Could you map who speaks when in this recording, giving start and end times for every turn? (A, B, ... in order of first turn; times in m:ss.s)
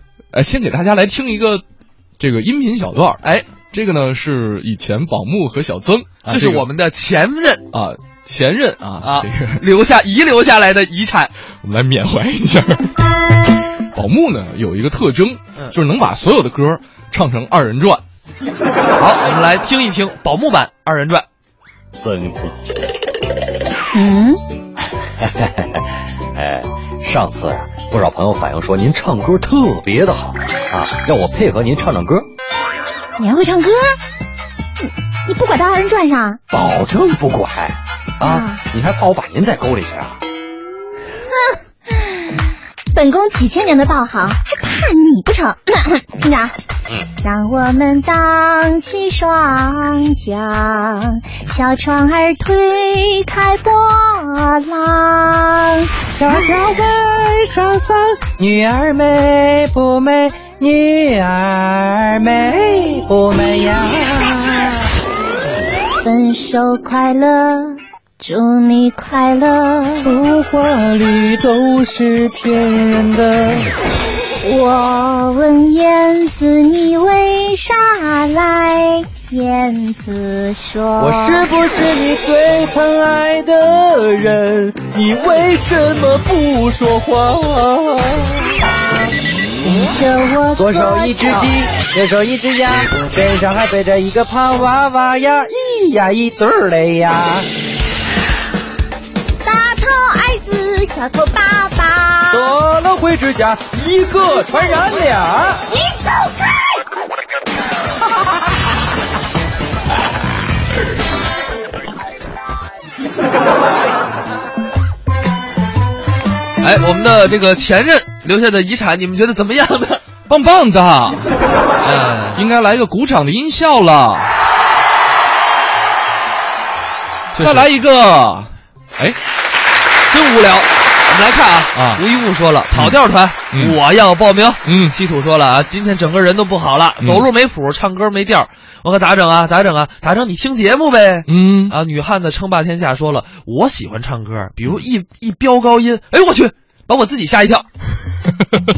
0:00.3-0:01.6 A
0:02.2-0:03.2 A
0:03.7-0:06.7 A
0:06.2-0:07.6 B
0:07.7-0:09.6 A
0:09.0-0:11.3 B
0:11.5-0:13.0 A
0:13.8-0:18.0 A
0:18.9-0:21.2 B
0:22.0-0:22.5 C
0:23.9-0:24.4 D
0:26.4-0:32.2 C
0:33.2-0:34.0 D
0:35.2-0:36.4 D
0:36.5-0:40.1 C
0:38.2-0:38.6 D
0:42.9-0:46.5 D
0:47.2-0:56.5 D
0:56.1-1:04.9 E
1:06.0-1:10.1 D
1:10.0-1:13.7 E
1:14.4-1:21.5 D
1:21.0-1:28.4 E
1:29.6-1:31.6 D
1:30.5-1:37.5 E
1:39.4-1:42.5 D
1:42.3-1:45.6 E
1:44.6-1:44.9 D
1:56.6-2:00.0 B
2:00.3-2:01.3 A
2:01.8-2:02.4 B
2:02.3-2:04.4 A
2:07.3-2:07.7 B
2:07.4-2:09.2 A
2:10.1-2:27.7 B
2:11.7-2:12.0 A
2:13.5-2:13.8 A
2:14.6-2:15.0 A
2:21.3-2:21.8 A